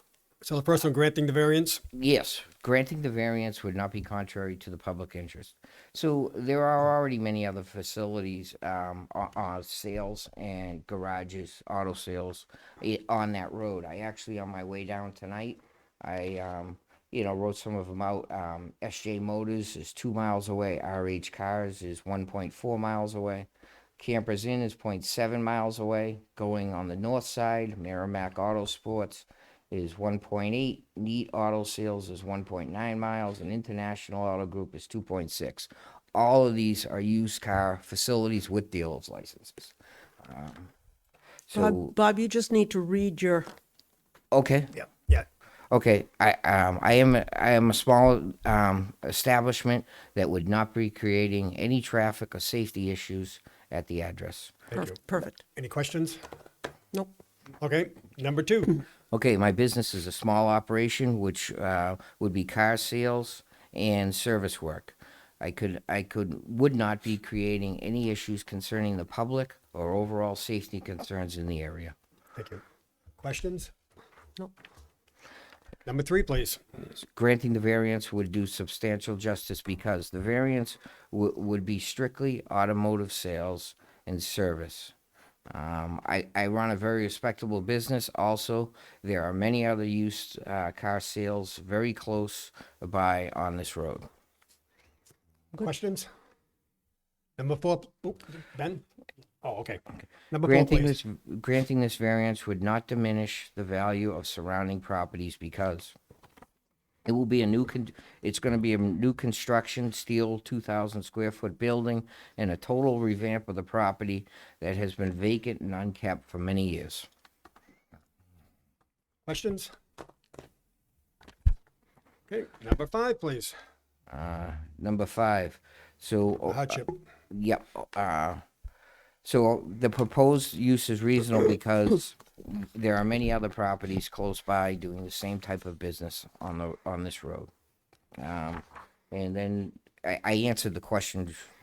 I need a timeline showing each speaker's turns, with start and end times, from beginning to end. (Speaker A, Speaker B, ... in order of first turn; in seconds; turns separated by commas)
Speaker A: 0.4-1.8, Speaker B: 1.9-23.5, Speaker B: 24.0-40.7, Speaker B: 41.5-41.9, Speaker C: 41.5-43.5, Speaker B: 44.3-44.8, Speaker A: 44.8-45.3, Speaker B: 45.7-54.6, Speaker A: 54.7-56.2, Speaker C: 54.7-55.4, Speaker A: 57.6-58.8, Speaker B: 59.1-71.9, Speaker A: 72.3-72.6, Speaker A: 73.2-73.7, Speaker A: 75.8-76.6, Speaker B: 77.0-84.9, Speaker B: 85.5-94.1, Speaker A: 95.5-96.1, Speaker A: 97.4-98.8, Speaker A: 99.4-101.0, Speaker B: 100.4-105.9, Speaker B: 107.0-117.1, Speaker A: 119.2-119.7, Speaker A: 122.3-123.5, Speaker B: 124.1-128.4, Speaker A: 126.4-127.0, Speaker B: 129.2-137.5, Speaker B: 138.2-141.5